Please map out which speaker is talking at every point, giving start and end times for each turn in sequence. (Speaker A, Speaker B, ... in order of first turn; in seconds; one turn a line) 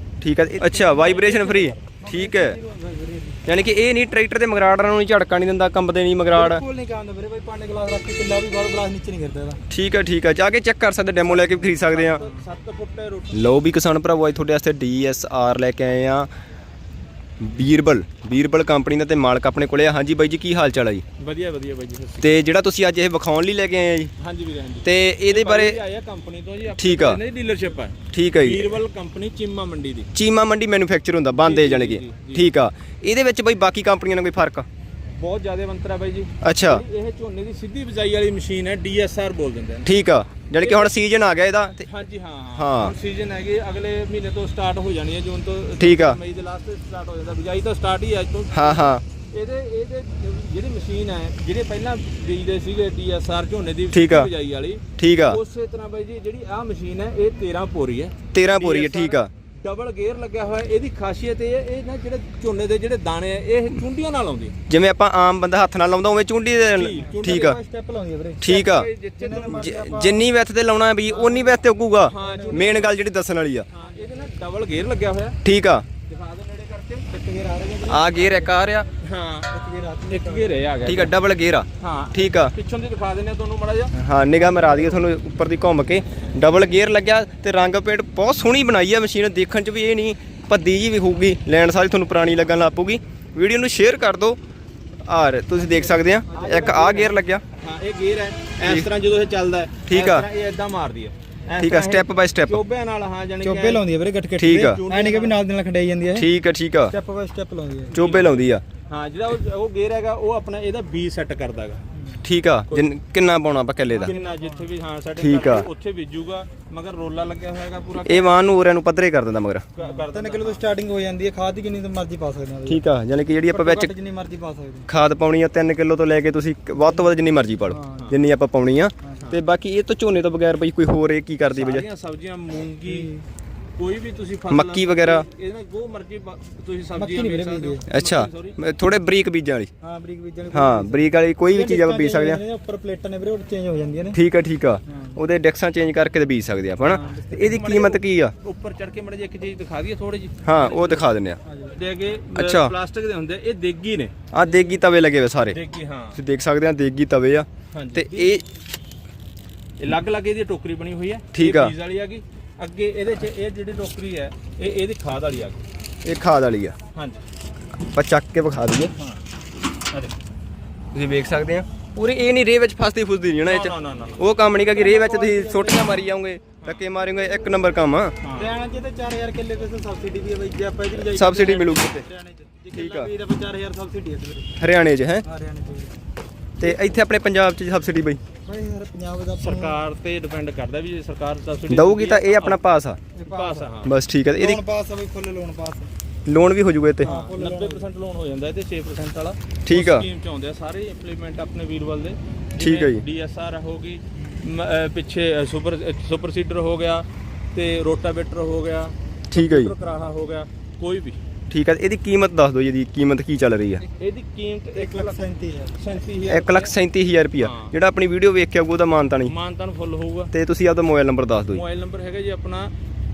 Speaker A: 0.2-2.6
Speaker B: 0.6-3.4
Speaker C: 0.9-1.8
Speaker A: 3.5-6.6
Speaker B: 6.3-9.6
Speaker A: 9.7-12.2
Speaker B: 11.3-12.4
Speaker C: 11.8-13.6
Speaker A: 13.3-16.3
Speaker A: 17.4-21.0
Speaker C: 21.2-22.4
Speaker A: 22.2-24.1
Speaker C: 24.2-30.1
Speaker A: 24.8-25.8
Speaker A: 26.8-27.2
Speaker A: 28.1-28.8
Speaker A: 30.1-34.6
Speaker C: 31.4-32.5
Speaker C: 35.1-39.9
Speaker A: 36.4-36.8
Speaker A: 39.9-41.8
Speaker C: 40.6-40.9
Speaker C: 41.9-64.5
Speaker A: 42.5-42.9
Speaker A: 45.8-46.2
Speaker A: 48.5-49.0
Speaker A: 53.9-54.3
Speaker A: 55.0-55.4
Speaker A: 58.3-59.3
Speaker A: 64.7-67.6
Speaker C: 66.7-67.5
Speaker B: 67.0-68.5
Speaker A: 68.4-68.9
Speaker C: 68.4-69.7
Speaker B: 69.2-70.2
Speaker A: 69.4-73.7
Speaker B: 71.1-71.5
Speaker C: 72.0-72.9
Speaker B: 72.1-72.8
Speaker C: 73.7-75.4
Speaker A: 75.4-75.8
Speaker C: 76.1-77.1
Speaker B: 77.1-78.5
Speaker A: 77.8-78.9
Speaker C: 79.0-79.5
Speaker B: 79.5-80.6
Speaker C: 80.1-81.1
Speaker A: 80.8-82.5
Speaker C: 81.8-83.9
Speaker A: 83.9-94.4
Speaker A: 95.1-97.4
Speaker B: 95.6-96.8
Speaker C: 96.3-103.8
Speaker A: 98.6-98.9
Speaker A: 99.9-100.2
Speaker A: 101.6-102.6
Speaker B: 103.4-106.3
Speaker A: 104.4-104.8
Speaker C: 104.6-105.4
Speaker A: 106.1-106.9
Speaker B: 106.9-108.0
Speaker A: 107.9-108.6
Speaker C: 107.9-111.8
Speaker B: 111.9-112.2
Speaker A: 112.2-114.1
Speaker C: 113.9-118.4
Speaker B: 114.0-114.6
Speaker A: 115.2-115.7
Speaker A: 118.0-119.6
Speaker C: 119.7-120.6
Speaker B: 119.8-122.8
Speaker A: 122.7-123.9
Speaker B: 123.5-124.9
Speaker A: 124.9-131.9
Speaker B: 127.7-128.1
Speaker C: 131.5-133.1
Speaker B: 132.9-133.2
Speaker C: 133.8-138.6
Speaker A: 134.5-135.2
Speaker B: 136.9-137.8
Speaker A: 137.9-139.7
Speaker B: 139.8-144.2
Speaker A: 140.5-142.4
Speaker A: 144.1-148.3
Speaker B: 144.9-145.2
Speaker B: 146.8-147.6
Speaker C: 147.4-151.1
Speaker A: 150.4-151.4
Speaker B: 151.4-151.7
Speaker C: 151.7-154.1
Speaker A: 152.3-152.7
Speaker A: 154.3-155.6
Speaker C: 155.5-156.2
Speaker A: 156.1-158.4
Speaker C: 157.7-158.4
Speaker C: 159.8-165.6
Speaker A: 161.3-161.7
Speaker A: 166.0-166.8
Speaker C: 166.9-167.2
Speaker A: 167.9-168.9
Speaker A: 170.9-178.1
Speaker C: 173.4-174.2
Speaker B: 174.5-176.0
Speaker C: 178.2-178.5
Speaker B: 178.3-184.5
Speaker A: 180.9-182.0
Speaker A: 182.7-183.1
Speaker A: 184.6-185.2
Speaker B: 185.2-185.9
Speaker A: 186.6-188.2
Speaker B: 188.4-189.8
Speaker C: 189.4-192.6
Speaker A: 191.7-193.0
Speaker B: 193.1-193.7
Speaker C: 193.2-193.9
Speaker A: 193.8-194.6
Speaker B: 194.4-195.9
Speaker A: 196.2-197.1
Speaker C: 197.0-211.2
Speaker B: 197.0-197.8
Speaker A: 199.6-200.1
Speaker A: 202.6-203.0
Speaker A: 209.3-209.7
Speaker A: 211.5-213.8
Speaker C: 213.9-215.2
Speaker B: 214.7-215.8
Speaker C: 215.8-216.7
Speaker A: 216.3-219.3
Speaker C: 217.4-217.7
Speaker C: 219.3-220.3
Speaker A: 220.3-221.6
Speaker C: 221.5-222.7